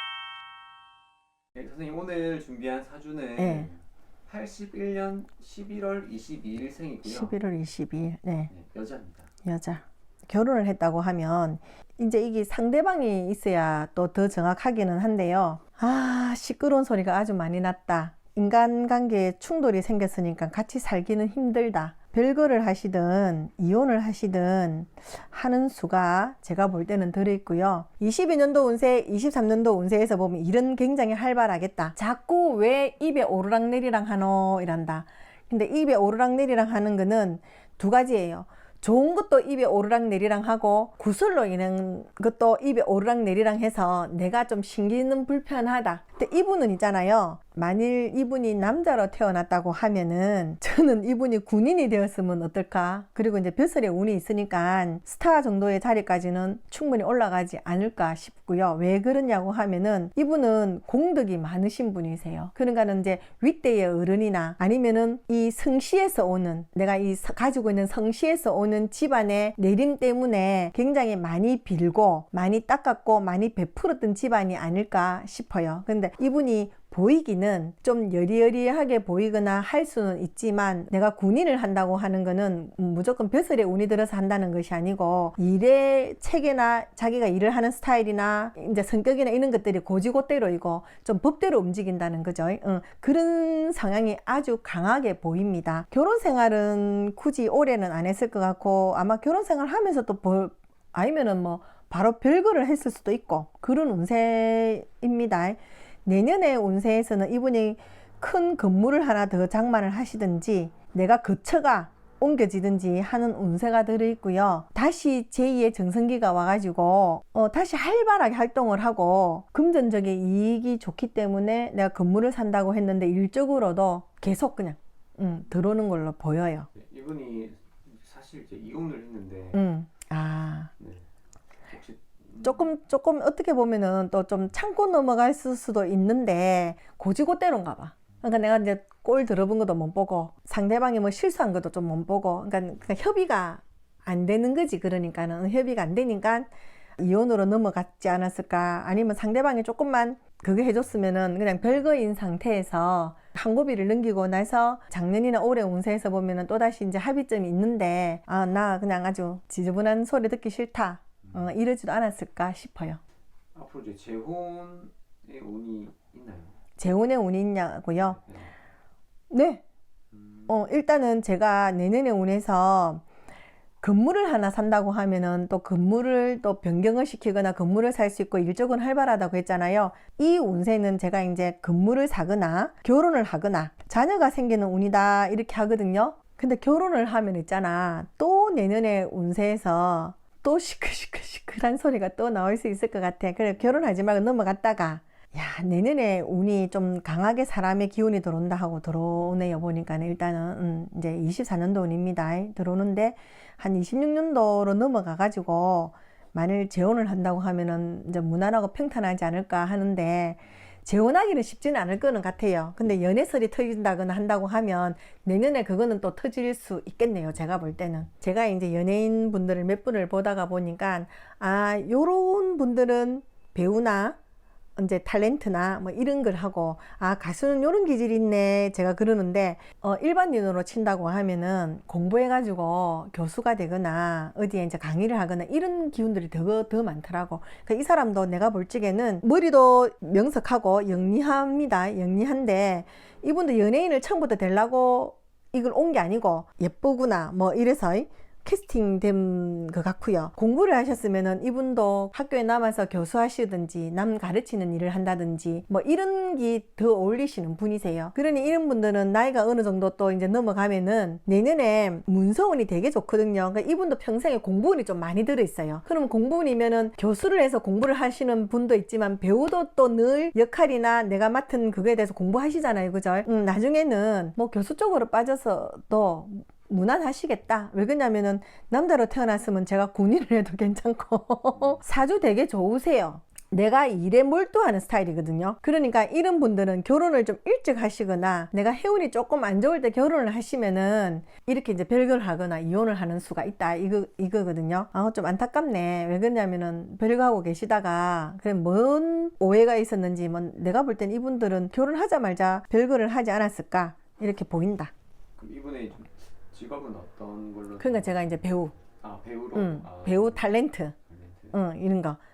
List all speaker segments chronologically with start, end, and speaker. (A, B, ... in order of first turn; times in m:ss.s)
0:01.5-0:07.4 A
0:03.4-0:03.7 B
0:07.0-0:08.5 B
0:08.5-0:09.3 A
0:09.4-2:06.7 B
2:06.7-2:09.6 A
2:09.5-2:10.7 B
2:10.8-2:11.0 A
2:11.7-2:12.7 A
2:12.4-2:43.0 B
2:43.5-2:46.6 A
2:46.8-2:48.2 B
2:48.0-2:48.5 A
2:49.3-2:49.6 B
2:50.1-2:50.5 A
2:50.5-2:53.0 B
2:53.8-3:44.2 B
3:44.8-5:04.9 B
5:05.4-5:11.6 A
5:07.8-5:08.8 B
5:09.5-5:10.9 B
5:11.5-5:12.2 B